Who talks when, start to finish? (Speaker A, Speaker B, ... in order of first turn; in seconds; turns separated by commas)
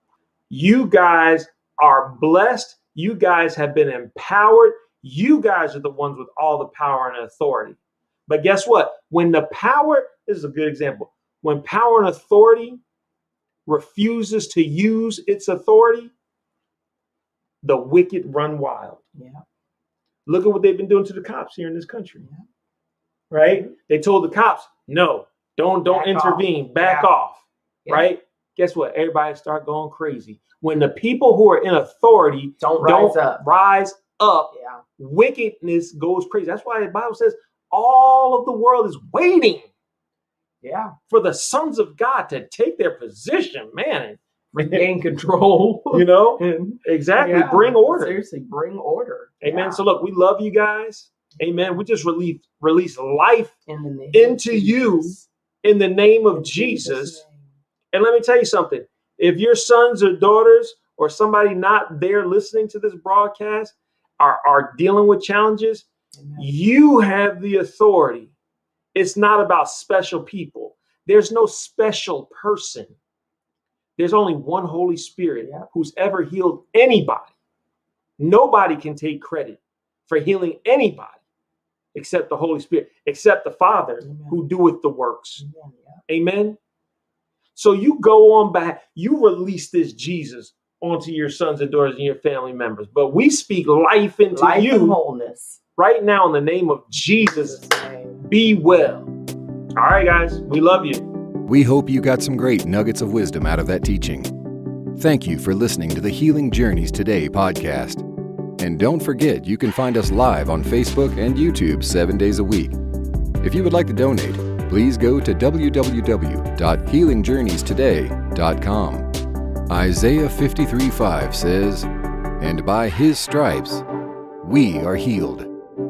Speaker A: 0.5-12.8, Speaker A: 13.7-16.1, Speaker A: 17.6-19.0, Speaker B: 19.1-19.4, Speaker A: 20.2-22.2, Speaker A: 23.3-39.6, Speaker B: 25.9-27.1, Speaker B: 32.6-33.4, Speaker B: 34.5-34.8, Speaker B: 40.6-40.9, Speaker A: 41.1-44.8, Speaker B: 44.5-49.8, Speaker A: 45.9-48.2, Speaker A: 49.4-53.6, Speaker B: 53.7-55.3, Speaker A: 54.1-57.2, Speaker B: 56.3-57.5, Speaker A: 57.9-65.9, Speaker B: 66.2-66.5, Speaker A: 66.4-68.3, Speaker A: 68.9-73.0, Speaker A: 74.0-77.3, Speaker B: 75.4-75.7, Speaker A: 78.2-81.2, Speaker A: 81.9-85.4, Speaker B: 84.0-84.4, Speaker B: 85.4-86.0, Speaker A: 86.1-86.6, Speaker A: 87.5-95.0, Speaker B: 94.3-95.6, Speaker A: 95.8-97.6, Speaker B: 97.2-98.2, Speaker A: 98.2-99.1, Speaker A: 99.8-101.1, Speaker C: 101.4-104.3, Speaker C: 104.9-108.0, Speaker C: 108.6-112.8, Speaker C: 113.4-119.1, Speaker C: 119.7-123.8, Speaker C: 124.4-125.5